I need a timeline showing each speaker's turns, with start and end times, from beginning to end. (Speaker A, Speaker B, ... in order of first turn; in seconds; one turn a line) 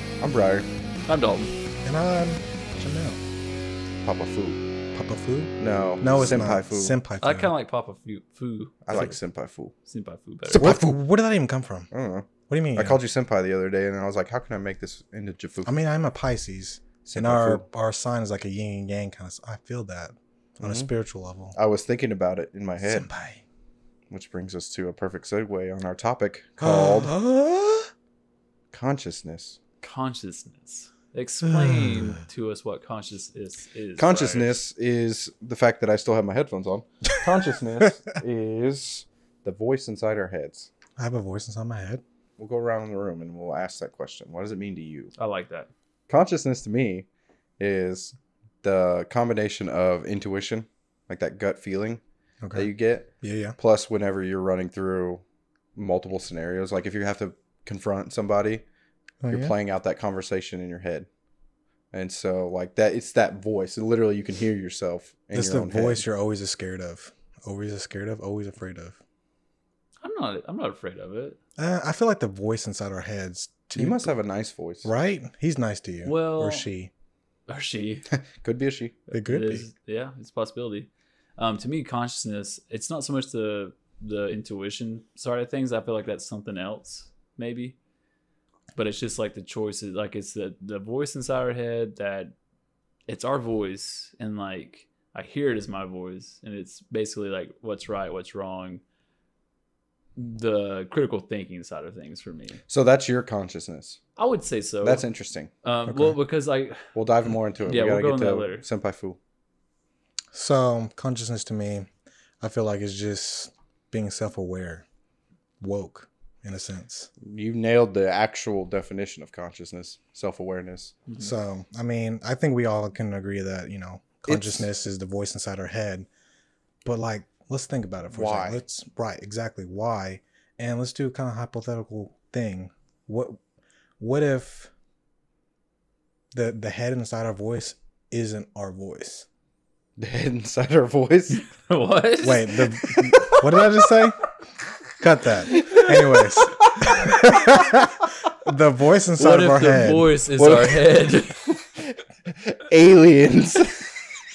Speaker A: 0.2-0.7
Speaker B: 1.1-1.5
Speaker C: 1.8-3.2
Speaker A: 4.0-4.6
Speaker C: 4.9-7.5
Speaker A: 5.6-7.0
Speaker B: 7.2-9.1
Speaker A: 8.9-9.7
Speaker B: 9.9-10.6
Speaker A: 10.5-11.0
Speaker C: 10.6-11.9
Speaker A: 11.9-15.7
Speaker C: 12.5-13.0
Speaker C: 15.7-21.6
Speaker A: 17.1-17.6
Speaker A: 20.6-20.9
Speaker A: 21.6-23.1
Speaker C: 22.8-23.4
Speaker A: 24.1-27.1
Speaker C: 26.6-27.9
Speaker A: 28.7-29.6
Speaker B: 29.8-34.6
Speaker C: 31.4-32.2
Speaker A: 34.0-40.7
Speaker C: 41.0-42.0
Speaker A: 42.4-45.1
Speaker B: 45.2-45.7
Speaker A: 46.1-47.1
Speaker A: 47.6-52.0
Speaker C: 52.4-52.7
Speaker A: 52.5-55.2
Speaker C: 53.2-53.6
Speaker A: 55.8-58.6
Speaker C: 59.2-59.5
Speaker A: 59.3-61.1
Speaker A: 61.9-66.0
Speaker C: 65.3-69.0
Speaker B: 70.0-71.4
Speaker C: 71.6-74.1
Speaker A: 73.8-74.9
Speaker C: 74.8-76.9
Speaker B: 76.0-76.7
Speaker B: 77.5-78.1
Speaker A: 78.1-79.0
Speaker B: 79.1-87.8
Speaker C: 79.1-79.7
Speaker B: 88.8-92.3
Speaker B: 93.1-98.8
Speaker B: 100.2-102.6
Speaker A: 102.7-104.0
Speaker B: 104.2-105.1
Speaker A: 104.8-105.5
Speaker B: 105.6-106.9
Speaker C: 105.9-106.2
Speaker A: 107.0-109.2
Speaker B: 107.7-108.7
Speaker C: 110.3-111.9
Speaker C: 112.4-114.8
Speaker C: 115.6-117.1
Speaker A: 117.2-121.0
Speaker C: 121.2-126.1
Speaker A: 124.2-124.7
Speaker C: 126.8-133.4
Speaker A: 128.1-128.6
Speaker C: 134.0-134.7
Speaker C: 136.3-139.3
Speaker A: 140.0-141.4
Speaker B: 141.6-142.6
Speaker C: 142.2-144.2
Speaker A: 143.1-143.6
Speaker C: 145.0-150.1
Speaker A: 145.5-147.1
Speaker B: 149.2-151.4
Speaker A: 150.4-150.9
Speaker A: 151.8-154.1